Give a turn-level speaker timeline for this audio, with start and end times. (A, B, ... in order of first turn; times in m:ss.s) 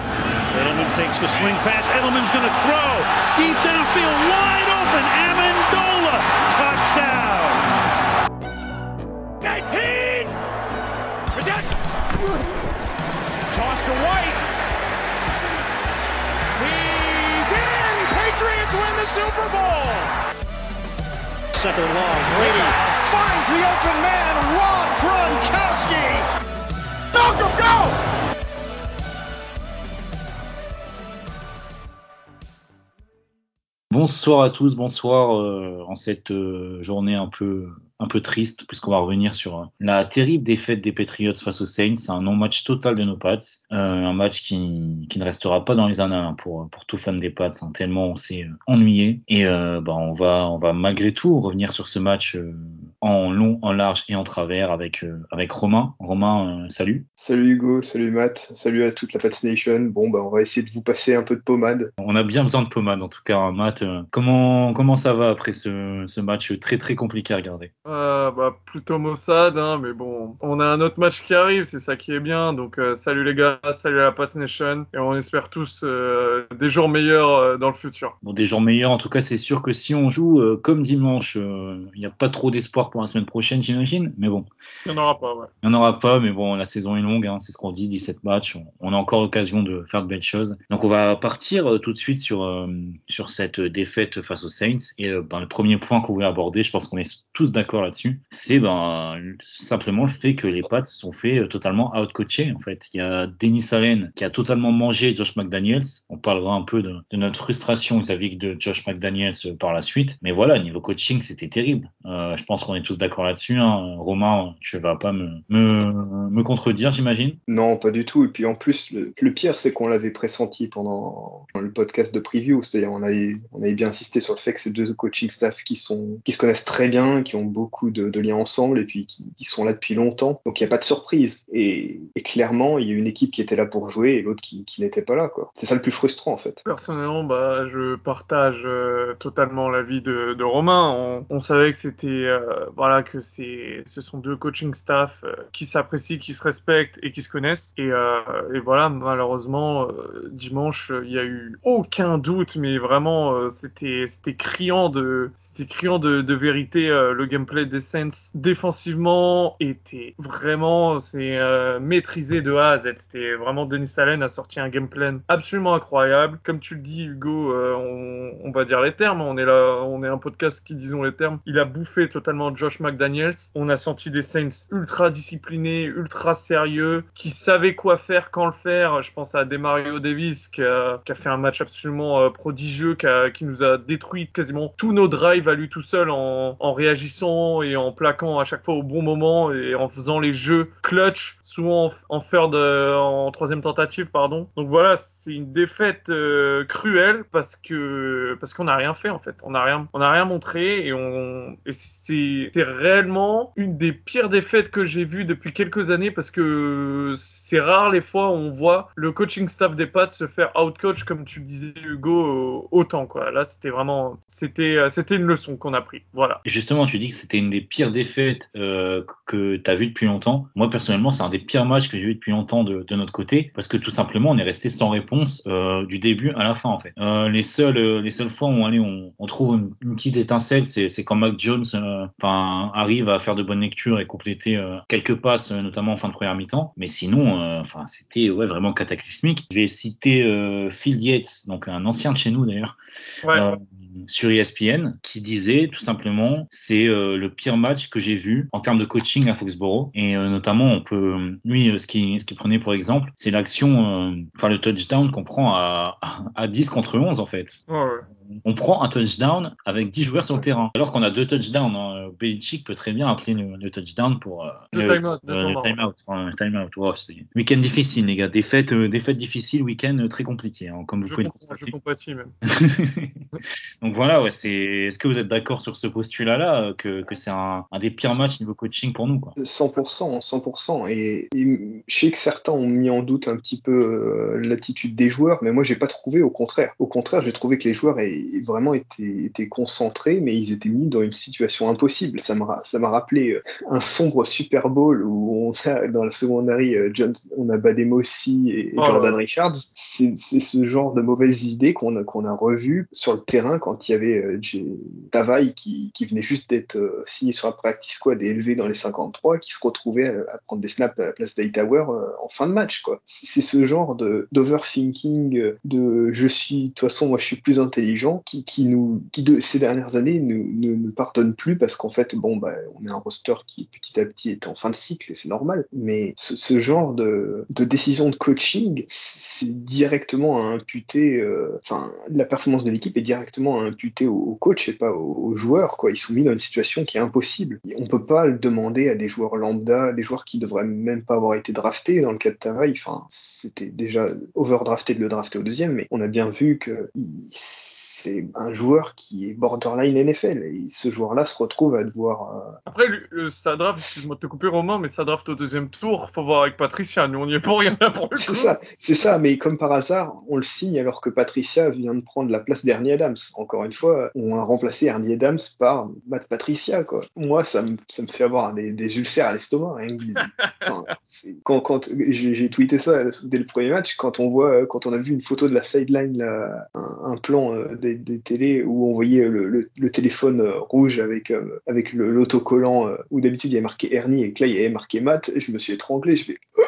0:00.5-0:07.7 A
0:09.4-0:10.3 B
0:11.4-0:12.4 B
0:13.5-0:14.4 B
0:16.6-0:20.1 B
0:21.6-0:26.3 B
0:22.4-0:22.7 A
0:27.1-0:28.0 B
0:33.9-0:57.0 C
0:57.2-1:01.9 D
1:02.0-1:07.7 C
1:07.9-1:18.2 E
1:18.2-1:24.5 C
1:24.8-1:25.5 E
1:25.6-1:57.4 C
1:57.5-2:16.6 D
2:16.6-3:36.4 E
3:36.4-4:02.8 C
4:03.2-4:03.6 E
4:03.3-4:17.6 C
4:17.7-4:18.0 E
4:18.4-4:31.7 C
4:24.7-4:25.8 E
4:31.1-4:32.3 E
4:32.5-4:33.2 C
4:33.8-4:39.4 C
4:39.4-5:52.6 D
4:58.8-4:59.2 E
5:52.7-5:58.5 E
5:58.2-6:26.4 D
6:10.4-6:10.7 E